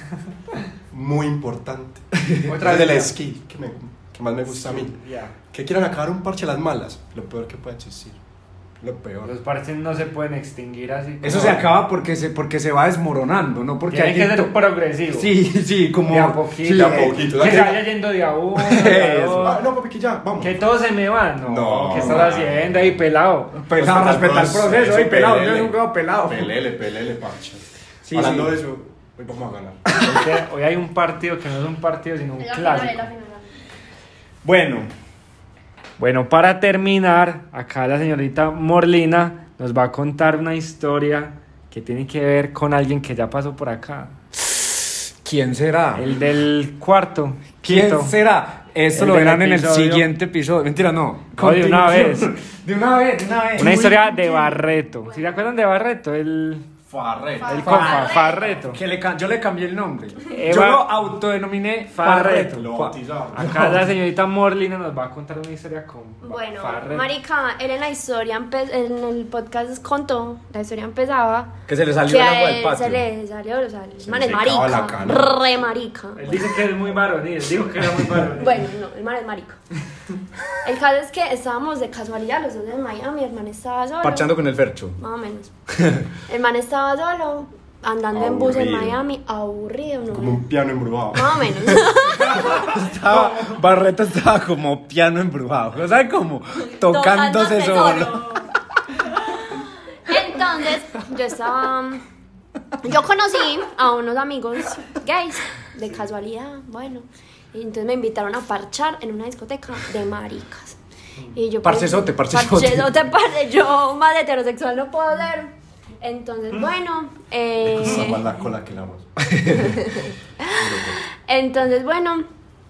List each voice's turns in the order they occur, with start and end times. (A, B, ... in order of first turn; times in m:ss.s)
0:00.9-0:05.0 A
0:02.4-0:03.1 B
0:04.5-0:05.3 B
0:05.5-0:08.2 A
0:08.8-0:09.3 A
0:09.2-0:11.7 B
0:11.2-0:14.6 C
0:13.9-0:15.3 B
0:15.1-0:17.3 C
0:16.0-0:19.6 B
0:16.7-0:17.9 A
0:18.6-0:19.6 C
0:19.4-0:20.6 A
0:20.4-0:23.6 B
0:21.4-0:23.0 A
0:23.6-0:26.5 C
0:23.7-0:29.9 A
0:28.0-0:28.6 C
0:30.0-0:33.1 B
0:32.4-0:33.6 D
0:34.4-0:34.9 C
0:36.0-0:44.1 B
0:45.2-0:46.1 C
0:45.9-0:48.2 B
0:47.6-0:54.4 C
0:48.9-0:50.1 B
0:51.3-0:52.3 B
0:53.6-0:56.6 B
0:53.6-0:54.4 A
0:55.1-0:55.4 D
0:56.9-0:57.8 A
0:57.4-0:58.8 B
0:57.4-0:58.6 D
0:57.6-1:03.8 C
1:00.3-1:01.0 B
1:01.9-1:02.7 B
1:02.5-1:03.8 A
1:03.4-1:07.1 B
1:06.2-1:16.3 D
1:11.7-1:13.0 C
1:14.0-1:15.4 A
1:16.2-1:18.6 B
1:18.4-1:19.6 D
1:20.6-1:24.3 D
1:24.0-1:25.0 C
1:25.0-1:25.5 D
1:25.8-1:26.0 C
1:26.3-1:30.4 D
1:28.1-1:29.0 C
1:30.1-1:31.9 A
1:31.1-1:32.7 D
1:32.4-1:38.4 C
1:33.1-1:33.5 B
1:36.6-1:38.5 D
1:39.4-1:42.0 D
1:42.8-1:50.8 D
1:51.4-1:58.2 D
1:51.6-1:53.0 C
1:57.6-1:59.8 A
1:59.3-1:59.6 C
1:59.6-2:02.3 D
2:00.5-2:01.0 A